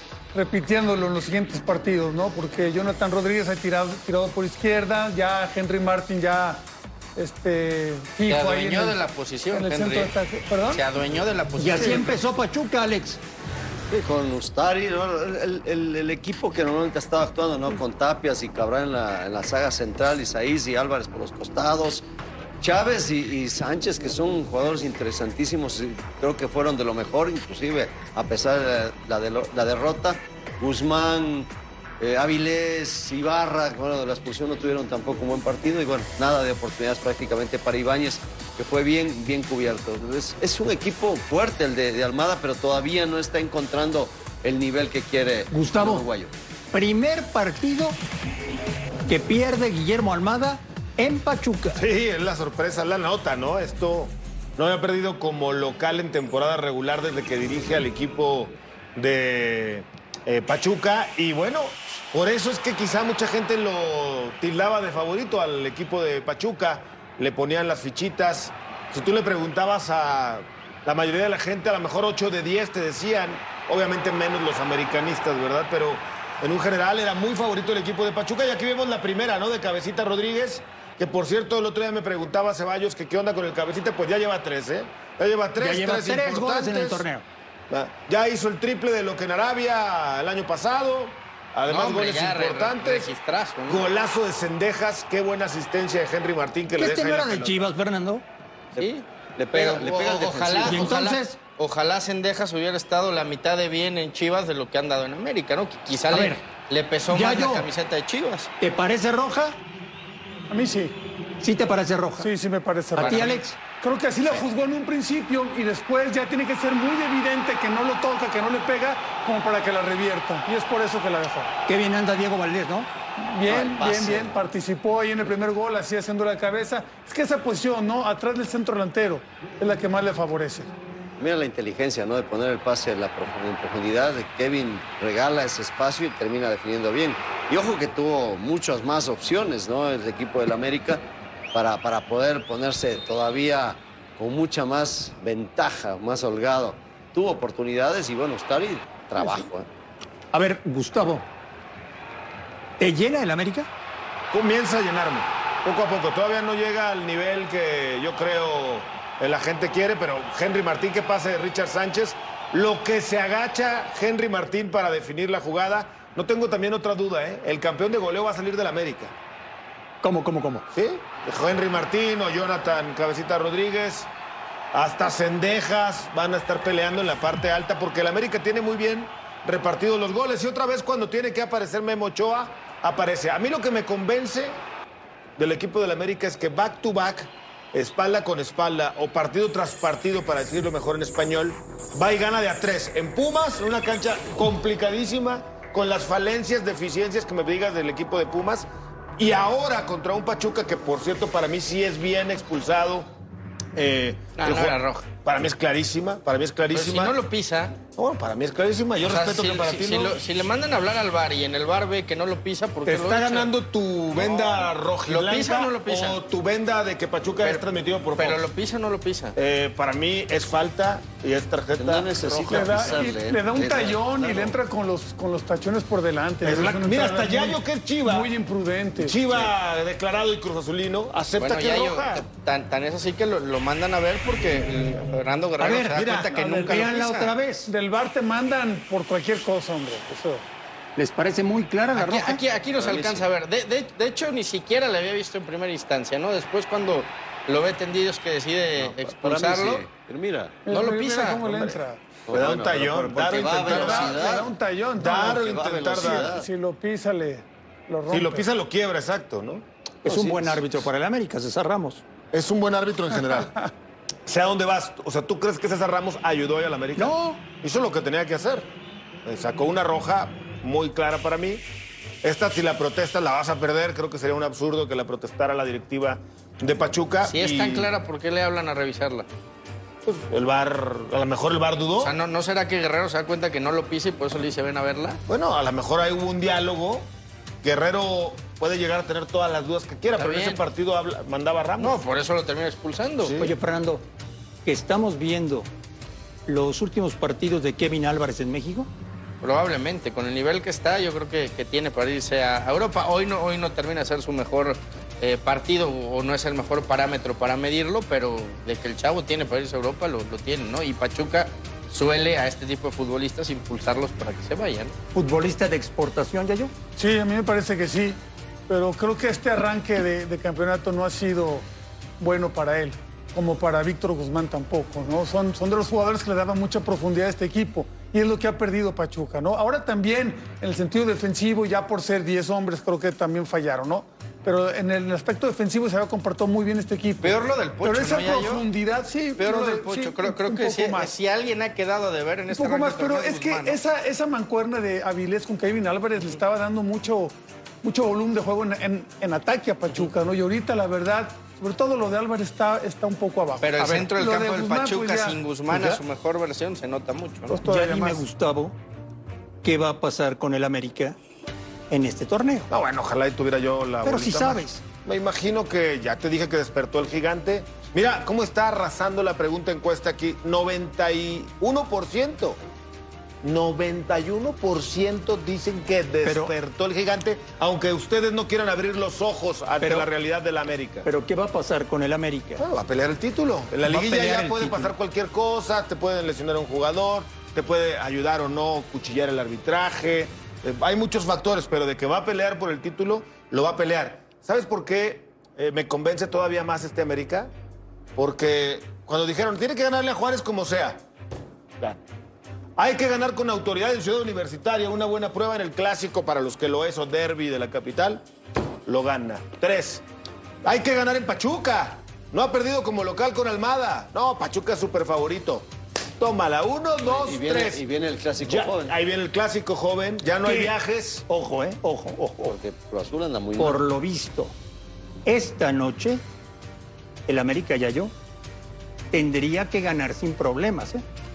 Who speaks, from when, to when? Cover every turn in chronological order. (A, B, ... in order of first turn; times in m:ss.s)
0:00.3-0:06.6 A
0:07.2-0:09.0 A
0:08.3-0:10.1 B
0:09.5-0:10.8 A
0:10.7-0:12.1 B
0:11.6-0:13.2 C
0:11.7-0:12.1 A
0:13.9-0:22.0 D
0:22.6-0:46.3 D
0:45.5-0:46.1 C
0:46.7-0:48.0 C
0:49.1-0:51.8 C
0:51.8-1:27.0 E
1:25.6-1:27.2 C
1:27.7-1:33.1 E
1:31.7-1:33.9 B
1:33.7-1:37.6 E
1:36.7-1:38.2 C
1:38.7-1:41.0 D
1:38.8-1:48.5 B
1:40.6-1:41.4 C
1:46.1-1:46.4 C
1:47.1-1:47.6 C
1:48.6-1:49.6 C
1:50.5-1:50.9 A
1:51.4-1:52.3 C
1:52.2-2:01.5 A
1:53.0-1:53.6 C
1:53.0-1:53.4 B
2:01.6-2:02.9 C
2:03.2-2:10.7 A
2:03.5-2:04.3 C
2:03.5-2:04.2 D
2:11.2-2:29.7 D
2:30.3-2:31.2 C
2:32.8-2:33.7 C
2:34.3-2:49.1 E
2:50.0-2:50.6 C
2:50.7-2:54.1 E
2:54.7-3:04.6 E
3:05.4-3:23.1 E
3:23.7-3:27.2 E
3:24.4-3:25.1 B
3:26.7-3:27.8 B
3:28.0-3:30.2 E
3:29.0-3:33.5 B
3:32.8-3:38.4 E
3:34.1-3:36.2 B
3:38.1-3:39.4 B
3:39.4-3:43.1 E
3:41.8-3:44.6 D
3:42.5-3:49.2 A
3:46.4-3:48.3 E
3:49.0-3:52.2 E
3:51.4-3:57.3 B
3:55.6-3:57.7 C
3:55.9-3:56.6 E
3:57.7-4:00.4 A
4:01.0-4:02.4 C
4:01.9-4:09.9 B
4:02.7-4:03.2 D
4:08.8-4:10.6 D
4:10.6-4:12.2 A
4:10.7-4:11.5 B
4:11.5-4:16.4 E
4:12.3-4:14.5 D
4:13.3-4:18.4 A
4:15.3-4:16.5 D
4:18.1-4:19.6 E
4:20.0-4:22.0 C
4:20.1-4:20.6 D
4:22.3-4:23.5 E
4:24.2-4:28.7 E
4:27.0-4:27.4 C
4:29.2-4:31.6 E
4:32.2-4:37.9 E
4:37.2-4:39.2 B
4:40.0-4:42.1 E
4:42.0-4:45.2 B
4:45.3-4:47.1 E
4:47.6-4:52.0 E
4:50.2-4:50.6 B
4:51.8-4:53.4 B
4:53.2-4:53.5 E
4:53.4-4:54.0 C
4:54.6-4:55.7 C
4:56.5-4:58.9 C
4:59.4-5:14.9 B
5:15.1-5:16.7 C
5:17.0-5:21.6 A
5:22.2-5:41.1 A
5:37.2-5:38.6 B
5:39.4-5:43.8 B
5:42.5-5:55.4 A
5:53.6-5:57.6 B
5:55.7-5:56.0 C
5:57.5-5:58.2 A
5:57.6-5:58.8 C
5:59.6-6:01.2 C
6:01.9-6:02.7 C
6:02.7-6:12.6 E
6:04.0-6:04.8 C
6:13.4-6:21.1 E
6:16.2-6:16.5 C
6:19.8-6:20.1 C
6:21.0-6:22.6 C
6:22.6-6:37.5 E
6:23.9-6:24.9 C
6:38.2-6:41.0 E
6:42.8-6:48.2 E
6:48.8-6:50.0 E
6:50.6-6:57.8 E
6:57.1-6:58.9 D
6:58.4-7:01.2 E
7:00.4-7:00.7 C
7:01.3-7:02.6 C
7:02.4-7:03.8 D
7:03.6-7:04.5 C
7:05.2-7:06.2 C
7:07.3-7:08.1 C
7:09.1-7:11.0 C